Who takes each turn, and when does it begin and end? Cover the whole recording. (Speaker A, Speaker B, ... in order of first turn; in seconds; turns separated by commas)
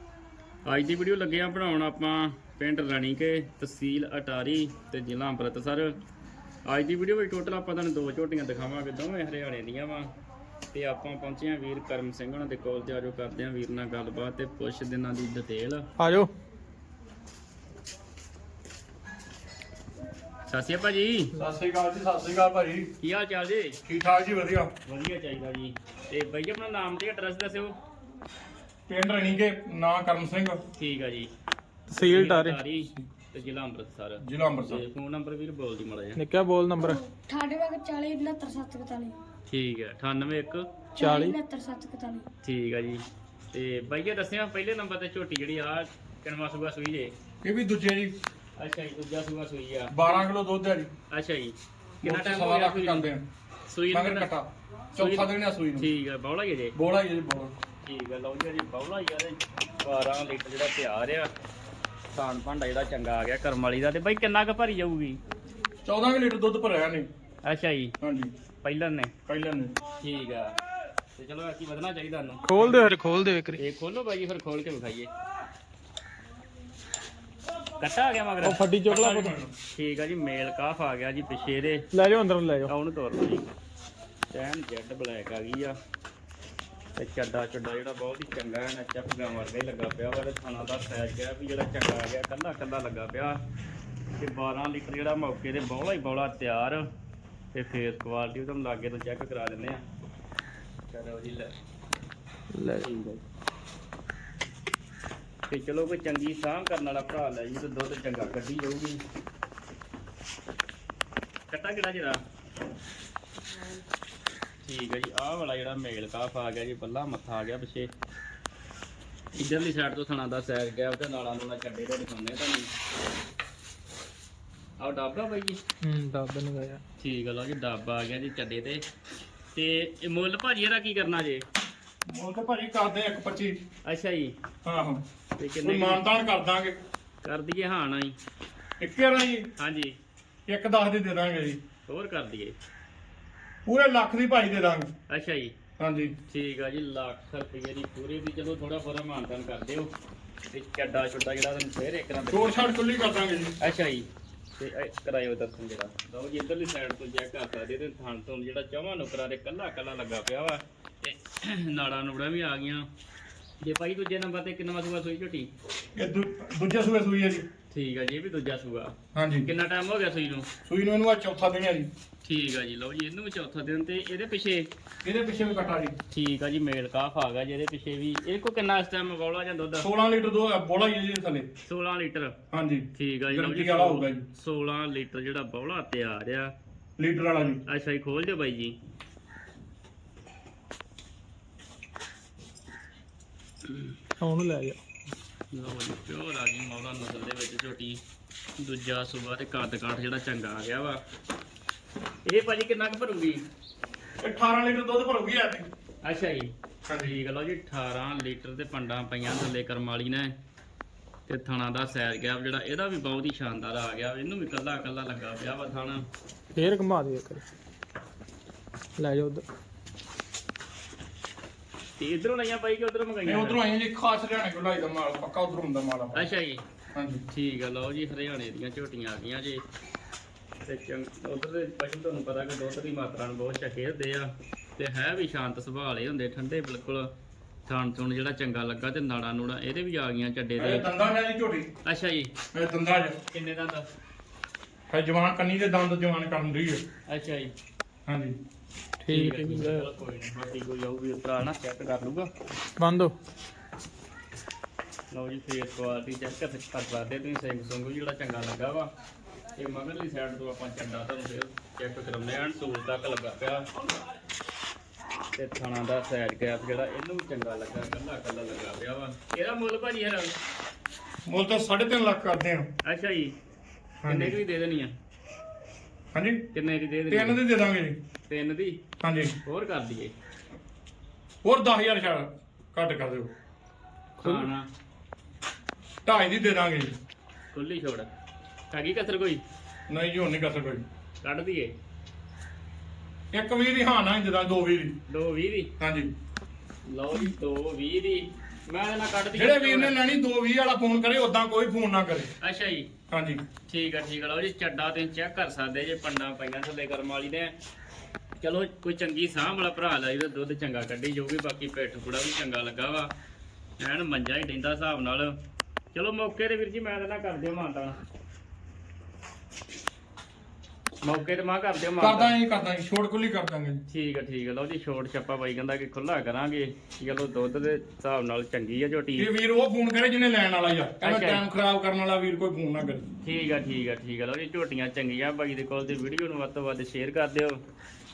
Speaker A: 0.7-5.9, Speaker A: 6.7-10.1, Speaker A: 10.7-15.8, Speaker B: 16.0-16.3, Speaker A: 20.5-21.3, Speaker C: 21.3-22.9, Speaker A: 23.0-23.8, Speaker C: 23.9-24.7, Speaker A: 24.9-27.8, Speaker C: 28.9-30.6, Speaker A: 30.8-31.3, Speaker B: 31.9-32.6, Speaker A: 31.9-36.2, Speaker C: 34.2-34.8, Speaker B: 36.1-37.0, Speaker D: 36.8-39.2, Speaker A: 39.5-40.6, Speaker D: 41.0-42.3, Speaker B: 41.0-41.4, Speaker A: 42.4-47.1, Speaker C: 47.4-48.1, Speaker A: 48.6-50.1, Speaker C: 49.9-50.9, Speaker A: 51.1-53.1, Speaker C: 52.0-53.2, Speaker A: 53.7-54.3, Speaker C: 53.9-55.9, Speaker A: 55.0-56.7, Speaker C: 56.7-57.5, Speaker A: 57.8-61.3, Speaker A: 62.1-65.2, Speaker C: 65.8-67.1, Speaker A: 67.4-67.9, Speaker C: 68.0-68.3, Speaker A: 68.6-69.1, Speaker C: 69.2-69.8, Speaker A: 70.0-70.5, Speaker A: 71.2-72.9, Speaker B: 72.5-73.6, Speaker A: 73.6-75.1, Speaker A: 77.8-79.2, Speaker B: 78.4-79.3, Speaker C: 78.9-79.5, Speaker A: 79.7-81.9, Speaker B: 81.9-82.7, Speaker A: 82.7-83.5, Speaker A: 84.3-85.8, Speaker A: 87.0-93.4, Speaker A: 94.2-96.9, Speaker A: 97.5-99.8, Speaker A: 100.9-101.5, Speaker B: 102.5-102.8, Speaker A: 102.7-103.2, Speaker A: 105.5-109.0, Speaker A: 111.5-112.2, Speaker A: 114.6-117.9, Speaker A: 119.3-122.7, Speaker A: 124.8-125.6, Speaker B: 125.8-126.8, Speaker A: 127.0-128.8, Speaker A: 129.5-131.4, Speaker C: 132.1-133.6, Speaker A: 133.8-134.3, Speaker C: 134.6-135.0, Speaker A: 135.4-136.0, Speaker C: 135.6-136.8, Speaker A: 137.2-138.2, Speaker C: 138.8-139.5, Speaker A: 139.6-140.0, Speaker C: 140.5-141.6, Speaker A: 141.9-142.5, Speaker C: 143.7-144.9, Speaker A: 145.1-145.5, Speaker C: 145.8-146.1, Speaker A: 146.3-149.9, Speaker A: 150.5-152.7, Speaker C: 152.3-153.5, Speaker A: 153.6-162.9, Speaker A: 163.6-165.5, Speaker C: 165.9-167.4, Speaker A: 167.7-170.5, Speaker C: 169.1-169.5, Speaker C: 170.6-171.9, Speaker A: 172.2-174.7, Speaker C: 175.0-175.9, Speaker A: 176.1-179.9, Speaker C: 179.8-181.5, Speaker A: 181.6-182.3, Speaker C: 182.5-184.2, Speaker A: 182.9-186.5, Speaker C: 187.0-187.6, Speaker A: 187.7-188.8, Speaker A: 193.6-193.9, Speaker B: 194.2-194.8, Speaker A: 195.5-198.0, Speaker A: 198.6-201.0, Speaker A: 202.2-203.4, Speaker C: 204.2-205.7, Speaker A: 206.0-210.3, Speaker C: 206.9-207.2, Speaker A: 211.3-216.0, Speaker B: 216.5-217.4, Speaker B: 219.0-219.4, Speaker A: 222.0-223.6, Speaker C: 223.2-226.3, Speaker A: 226.1-226.6, Speaker C: 226.9-227.2, Speaker A: 227.3-229.6, Speaker A: 230.6-237.1, Speaker A: 237.7-240.9, Speaker C: 240.6-241.7, Speaker A: 241.8-242.3, Speaker C: 242.5-243.2, Speaker A: 243.3-243.9, Speaker C: 244.9-246.8, Speaker A: 247.1-247.5, Speaker C: 248.1-248.4, Speaker B: 249.0-249.9, Speaker A: 249.1-252.3, Speaker B: 252.8-253.1, Speaker A: 255.1-258.9, Speaker A: 259.6-263.7, Speaker A: 265.4-270.3, Speaker C: 271.2-272.7, Speaker A: 272.8-273.4, Speaker C: 274.0-274.4, Speaker A: 274.1-274.9, Speaker C: 276.1-276.4, Speaker A: 276.5-277.4, Speaker C: 277.1-278.0, Speaker A: 278.3-278.8, Speaker C: 279.0-279.3, Speaker A: 279.4-280.1, Speaker C: 281.4-283.3, Speaker A: 284.2-284.6, Speaker C: 286.1-286.9, Speaker A: 287.5-288.1, Speaker A: 288.7-289.4, Speaker C: 289.9-290.9, Speaker A: 291.2-291.7, Speaker C: 293.3-295.0, Speaker A: 295.1-295.7, Speaker C: 295.8-296.1, Speaker A: 296.9-300.0, Speaker C: 299.3-302.3, Speaker A: 302.4-302.9, Speaker C: 303.1-303.4, Speaker A: 303.7-307.5, Speaker A: 308.4-313.1, Speaker A: 313.8-315.4, Speaker A: 315.9-318.0, Speaker A: 321.0-322.3, Speaker C: 322.0-323.8, Speaker A: 323.9-329.3, Speaker C: 329.2-333.0, Speaker A: 331.0-331.4, Speaker A: 333.2-337.6